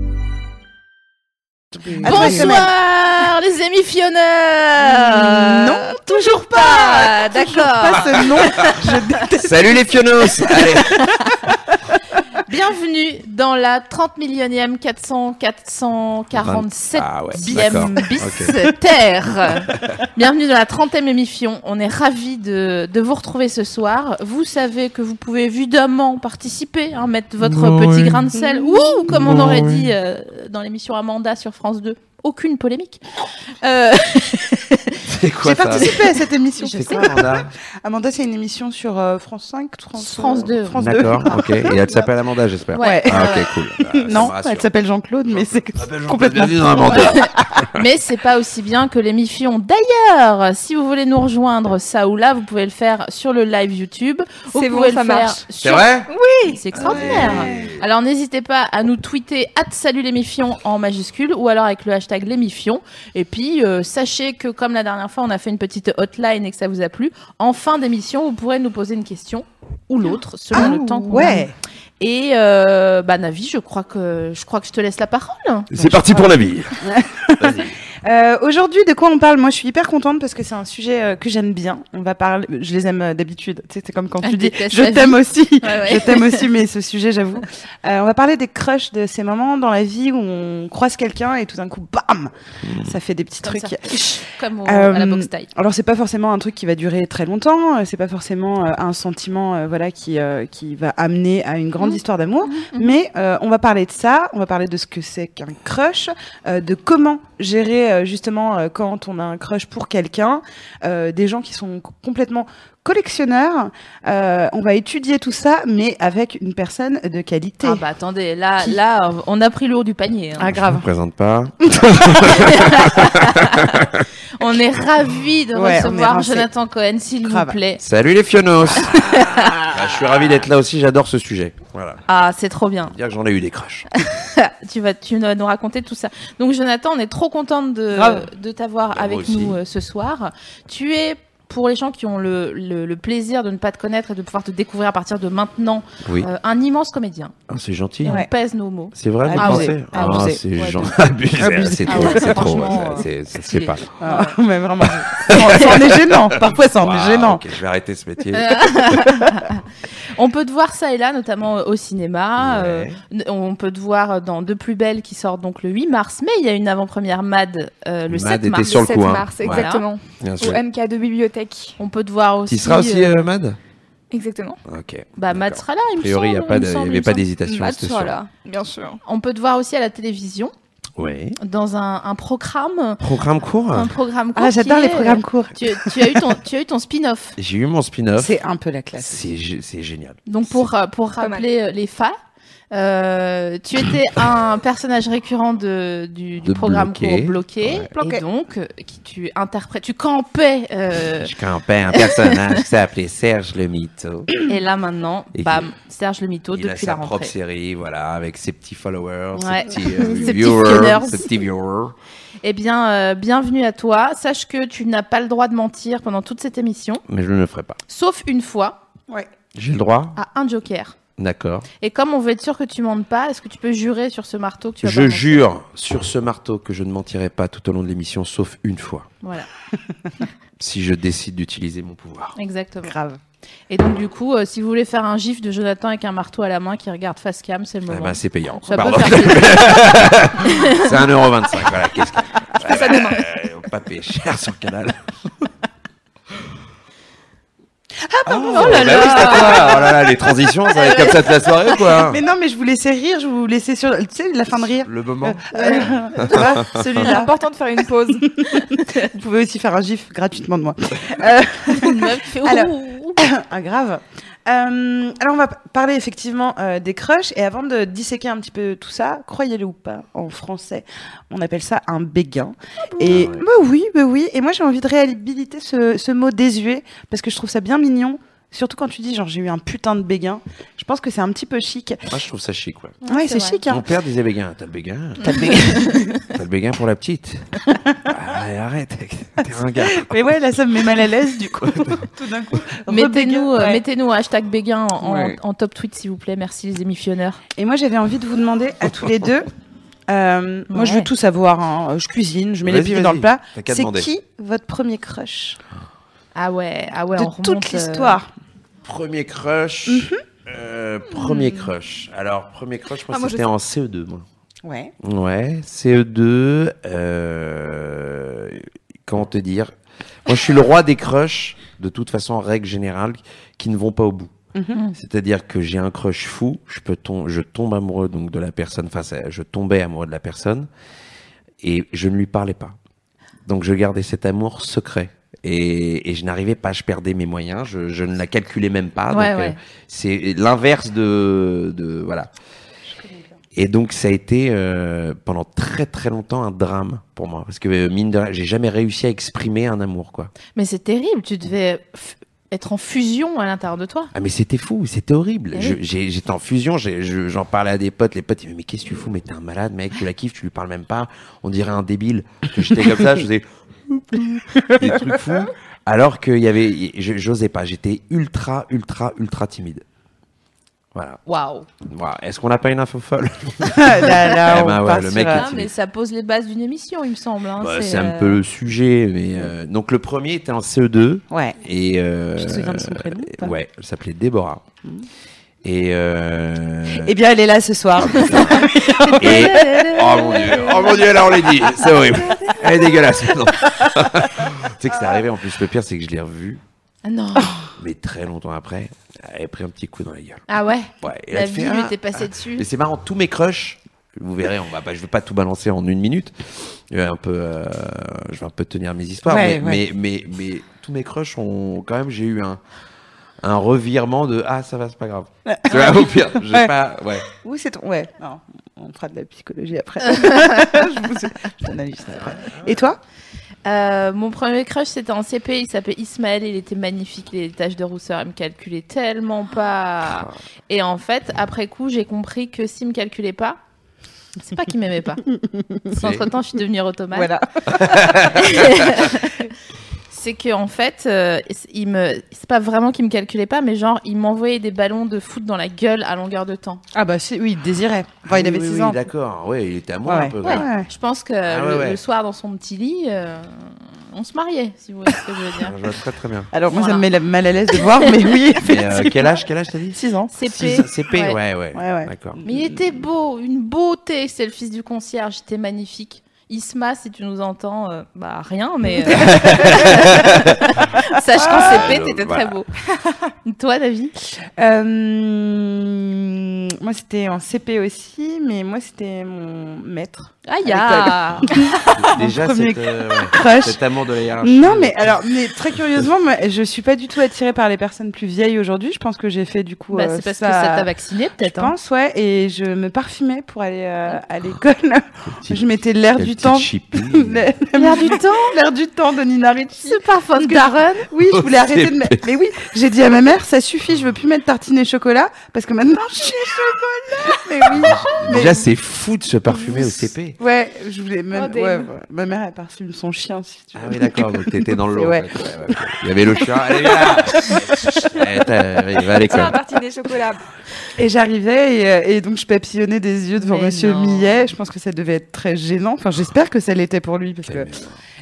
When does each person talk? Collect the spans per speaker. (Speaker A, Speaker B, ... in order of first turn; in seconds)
Speaker A: 1.8-2.6, 9.4-10.9, 16.4-18.6, 27.4-28.2, 29.2-29.7, 35.1-35.9, 36.7-37.5, 40.8-44.7, 45.3-47.8, 55.6-56.1, 56.7-57.8, 75.7-76.9, 77.4-77.8, 92.6-92.9, 120.7-124.0, 127.8-132.0, 132.9-133.9, 138.9-139.6, 147.5-148.2, 148.9-153.9, 155.3-158.9, 162.4-163.0, 168.1-169.7, 170.2-170.6, 172.5-173.6, 174.7-178.2, 181.0-181.4, 183.0-183.9, 187.4-188.3, 189.0-190.2, 196.4-197.9, 201.2-204.3, 205.3-205.7, 206.5-211.9, 217.1-217.8, 219.6-220.2, 221.2-221.7, 224.8-229.1, 230.6-232.4, 237.9-244.9, 248.3-252.2, 254.7-255.5, 256.2-256.8, 273.0-273.4, 282.1-283.0, 283.7-285.6, 286.2-287.6, 288.1-290.2, 291.6-292.0, 302.6-304.1, 308.9-314.2, 315.0-319.7, 320.3-324.3, 324.9-330.7, 331.6-332.8, 333.5-342.3, 343.6-350.3, 354.1-369.8, 370.9-371.2, 371.9-375.7, 377.6-384.6, 385.6-387.1, 388.0-388.6, 389.2-396.6, 397.8-400.4, 401.0-412.6, 413.4-417.3, 422.2-422.7, 436.0-436.3, 437.7-438.7, 448.3-450.7, 451.5-452.0, 455.6-456.5, 458.6-462.4, 469.2-470.6, 471.5-472.5, 481.9-485.2, 496.2-497.5, 501.3-502.2, 507.7-510.4, 513.8-519.6, 527.5-528.0
Speaker B: 1.9-2.7, 4.8-9.9, 10.5-10.8, 17.4-18.7, 28.4-29.0, 35.4-42.0, 42.8-47.7, 56.8-57.7, 70.5-71.5, 75.7-117.8, 120.4-120.9, 121.7-122.3, 125.5-126.5, 127.2-127.6, 137.9-138.3, 149.2-150.4, 151.4-153.1, 154.0-157.4, 184.3-186.2, 188.2-189.3, 198.0-198.2, 232.8-233.2, 238.7-239.4, 248.0-250.2, 250.7-257.3, 258.2-282.1, 283.1-283.9, 285.2-286.1, 289.8-293.8, 295.0-295.4, 297.6-299.5, 300.1-305.6, 307.2-308.3, 309.9-310.2, 314.6-314.9, 324.6-324.8, 342.9-343.3, 364.6-365.2, 373.7-375.5, 381.3-381.6, 382.4-383.6, 386.9-393.4, 409.2-409.8, 415.5-416.7, 417.3-423.0, 437.1-438.0, 446.9-449.0, 450.1-450.9, 456.5-459.4, 459.9-460.3, 461.7-462.7, 469.3-469.7, 471.3-472.0, 474.4-483.8, 484.4-508.6, 510.4-515.3, 516.3-518.2, 521.0-527.7
Speaker C: 2.0-8.9, 12.4-33.0, 33.6-35.0, 40.0-41.6, 42.7-43.5, 47.8-56.0, 56.5-71.4, 72.0-75.7, 84.2-86.5, 93.4-95.5, 102.5-102.9, 117.6-120.5, 122.3-123.8, 124.4-127.8, 128.9-129.6, 132.1-132.9, 134.0-147.3, 148.0-150.2, 151.9-154.4, 158.3-159.6, 160.2-168.8, 169.4-169.8, 171.8-173.1, 175.2-177.2, 179.1-180.5, 181.4-183.0, 183.7-187.4, 190.3-192.2, 192.7-201.3, 202.0-202.3, 204.5-207.3, 209.4-211.3, 212.4-217.0, 217.9-218.8, 220.2-221.0, 221.8-225.5, 229.2-229.5, 232.4-232.9, 233.7-239.8, 240.4-240.9, 242.6-243.2, 248.5-249.9, 255.6-255.8, 258.5-259.1, 261.7-263.2, 283.1-283.6, 292.9-297.4, 300.7-301.1, 306.4-308.2, 339.1-339.6, 350.6-354.1, 371.3-371.7, 375.3-378.4, 388.3-390.6, 397.1-397.6, 400.5-402.7, 420.1-420.6, 423.6-433.6, 434.4-435.3, 435.9-437.3, 438.1-439.5, 440.1-446.8, 450.4-455.7, 456.7-457.1, 460.3-461.4, 462.4-472.7, 473.4-474.1, 480.5-481.6, 489.9-491.7, 497.7-498.5, 499.6-501.1, 523.4-524.3
Speaker D: 54.5-55.4, 56.1-56.6, 70.6-71.3, 168.6-171.8, 174.1-174.6, 177.4-179.0, 191.2-191.4, 257.0-258.4, 313.1-313.4, 511.3-511.9, 519.2-520.4